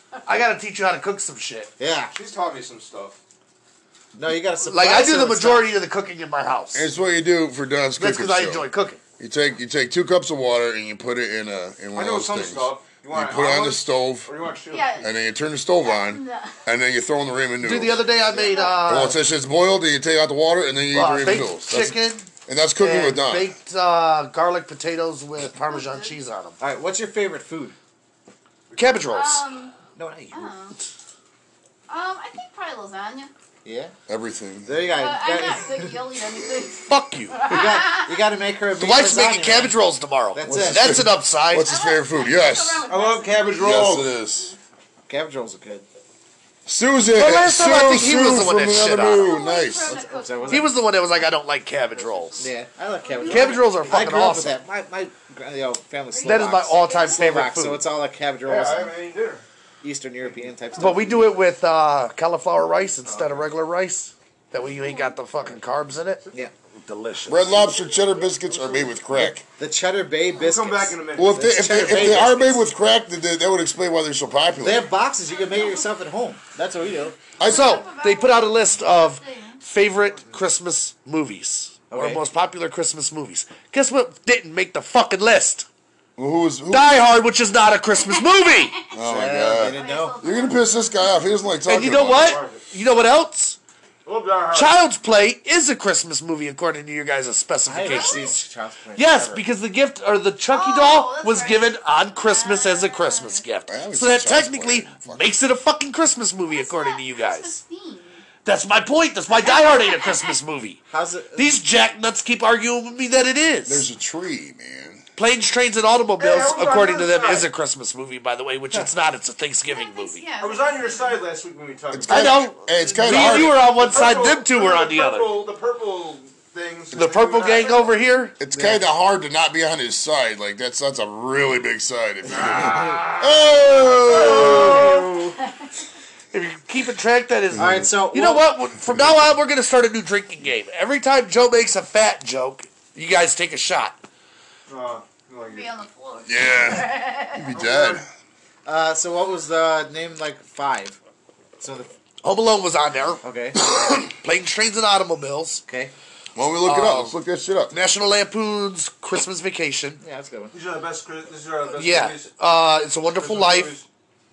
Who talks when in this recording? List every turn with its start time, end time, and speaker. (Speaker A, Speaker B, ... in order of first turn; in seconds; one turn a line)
Speaker A: 0.2-1.7
Speaker B: 1.8-2.1
Speaker C: 2.1-3.2
Speaker B: 4.1-5.7
Speaker A: 4.6-6.9
Speaker D: 6.7-8.7
Speaker A: 8.0-9.0
Speaker D: 9.2-14.3
Speaker C: 11.9-15.0
Speaker E: 14.7-15.1
Speaker D: 15.0-18.0
Speaker E: 15.8-16.6
Speaker A: 17.6-19.2
Speaker E: 18.1-19.1
Speaker D: 18.8-23.5
Speaker A: 20.9-26.6
Speaker E: 25.6-26.2
Speaker B: 26.6-27.8
Speaker C: 28.7-29.1
Speaker A: 28.8-29.4
Speaker E: 29.1-29.8
Speaker B: 30.0-30.5
Speaker E: 30.3-30.8
Speaker E: 31.9-33.3
Speaker B: 33.6-33.9
Speaker D: 34.1-34.9
Speaker B: 34.6-36.0
Speaker E: 34.9-38.2
Speaker A: 36.9-37.4
Speaker B: 37.5-39.8
Speaker A: 38.8-41.8
Speaker B: 40.3-41.0
Speaker D: 40.4-42.9
Speaker E: 41.6-44.6
Speaker C: 42.9-44.1
Speaker D: 43.6-44.5
Speaker B: 45.1-45.9
Speaker D: 46.7-50.0
Speaker A: 47.1-49.4
Speaker E: 49.1-50.8
Speaker B: 49.9-50.7
Speaker A: 50.5-52.5
Speaker C: 51.8-52.5
Speaker B: 52.4-58.9
Speaker E: 53.0-53.8
Speaker A: 53.2-54.6
Speaker E: 56.1-57.3
Speaker A: 56.2-57.9
Speaker C: 58.4-59.4
Speaker B: 59.8-61.3
Speaker A: 60.8-67.6
Speaker C: 63.0-63.5
Speaker E: 64.6-65.1
Speaker D: 67.3-69.5
Speaker B: 69.2-72.7
Speaker C: 70.3-71.5
Speaker D: 71.2-74.9
Speaker B: 74.6-77.2
Speaker E: 75.3-75.9
Speaker D: 77.4-77.8
Speaker E: 77.4-79.6
Speaker A: 77.4-85.7
Speaker B: 81.9-82.2
Speaker D: 86.2-87.1
Speaker A: 86.7-88.8
Speaker E: 87.9-89.0
Speaker D: 88.9-92.4
Speaker B: 89.0-90.5
Speaker E: 89.6-91.4
Speaker A: 91.7-93.6
Speaker C: 91.8-92.6
Speaker C: 94.0-94.8
Speaker A: 94.5-98.4
Speaker B: 97.7-99.4
Speaker E: 97.8-98.4
Speaker A: 99.0-107.6
Speaker E: 100.5-103.4
Speaker D: 103.7-105.3
Speaker E: 106.5-108.2
Speaker A: 108.5-110.8
Speaker E: 109.3-110.4
Speaker B: 110.9-111.5
Speaker A: 111.3-113.9
Speaker D: 113.7-115.1
Speaker A: 115.2-120.2
Speaker C: 116.2-117.5
Speaker E: 119.7-121.2
Speaker C: 120.4-122.5
Speaker D: 121.9-123.6
Speaker A: 122.1-125.4
Speaker C: 123.1-128.0
Speaker A: 126.9-128.4
Speaker D: 128.4-134.9
Speaker B: 128.5-128.8
Speaker C: 132.4-133.1
Speaker C: 133.9-135.4
Speaker E: 134.4-135.7
Speaker A: 136.3-144.0
Speaker D: 137.5-137.9
Speaker B: 137.6-138.5
Speaker C: 144.7-145.8
Speaker E: 145.5-147.5
Speaker D: 146.3-148.1
Speaker C: 147.5-148.0
Speaker B: 148.7-151.0
Speaker B: 151.6-151.9
Speaker A: 152.2-153.2
Speaker B: 153.2-153.6
Speaker D: 153.8-154.0
Speaker A: 154.1-155.6
Speaker B: 155.7-155.9
Speaker D: 156.3-157.8
Speaker A: 156.6-157.2
Speaker A: 157.7-160.0
Speaker B: 160.0-160.5
Speaker C: 160.5-162.4
Speaker A: 161.7-163.8
Speaker C: 163.1-163.9